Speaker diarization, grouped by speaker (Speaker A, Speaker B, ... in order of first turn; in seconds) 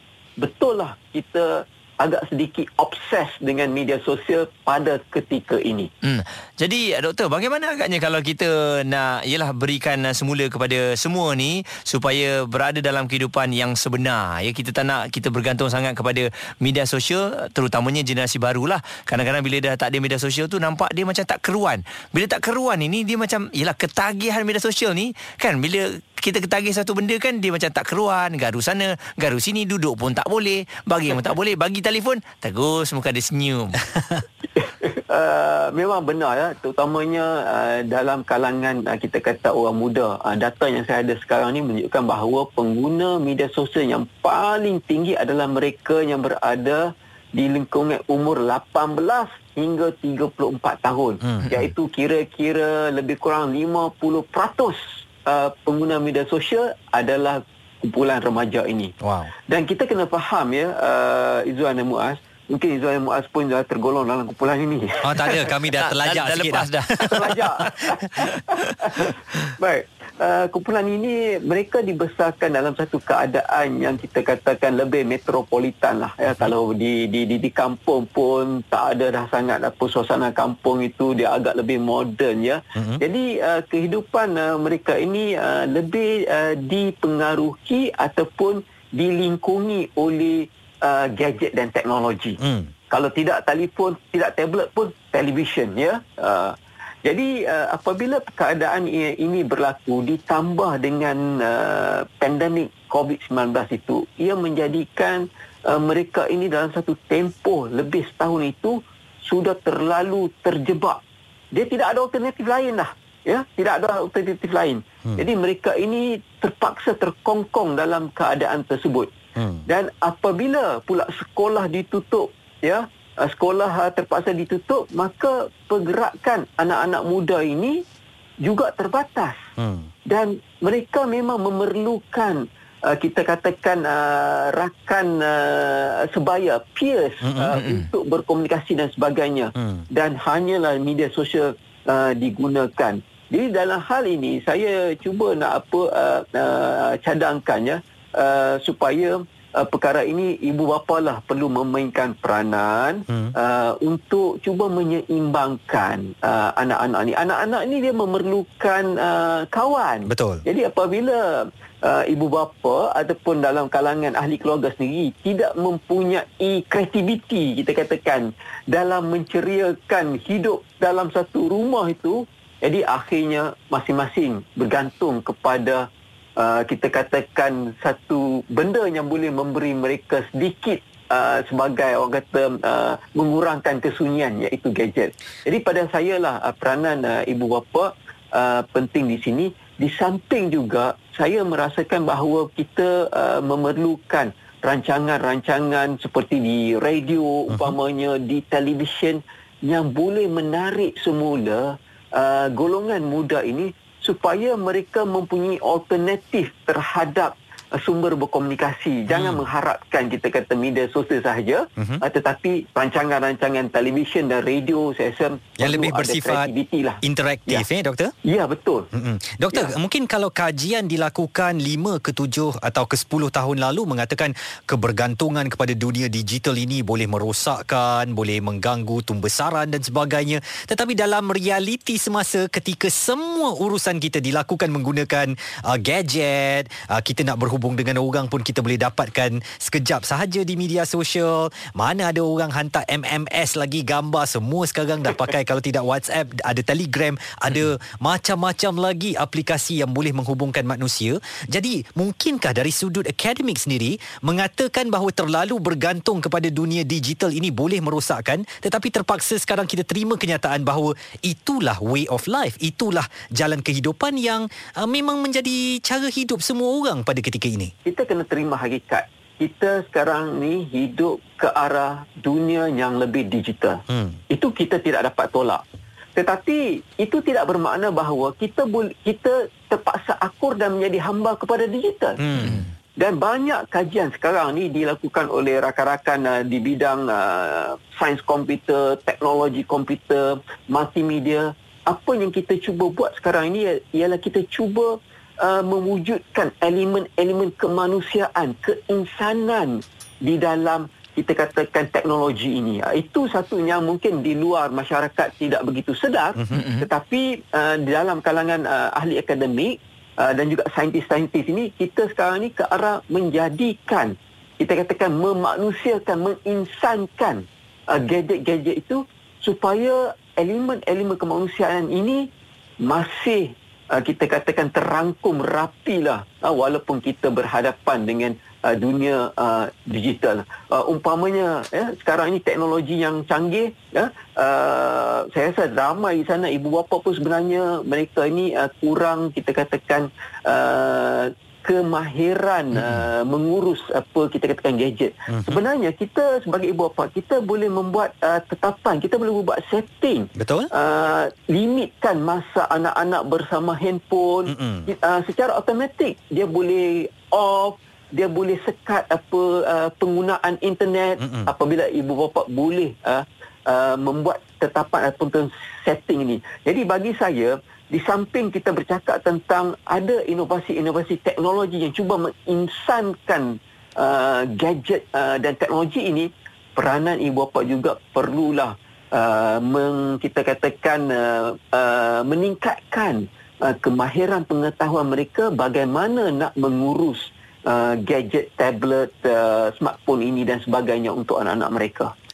Speaker A: 0.4-5.9, 34.6-58.9, 59.5-65.5, 67.1-92.4, 92.9-111.0, 111.5-119.1, 119.7-127.8, 128.4-129.4, 130.1-175.8, 176.4-217.6, 218.2-218.9, 267.8-275.6, 276.1-282.2, 283.0-322.3, 322.8-392.1
Speaker B: 6.0-33.9, 65.8-67.3, 137.5-137.9, 282.4-282.7, 306.5-306.9
Speaker C: 51.2-51.7, 59.0-59.3, 65.0-67.9, 82.7-83.0, 92.4-92.7, 119.3-119.7, 129.6-129.9, 137.2-137.5, 139.6-139.8, 153.1-153.3, 160.1-160.4, 197.5-197.8, 215.6-216.5, 217.0-218.1, 218.9-267.7, 273.9-274.2, 282.2-282.6, 306.4-306.6, 345.3-345.6, 350.4-350.7, 354.5-354.9, 361.2-361.5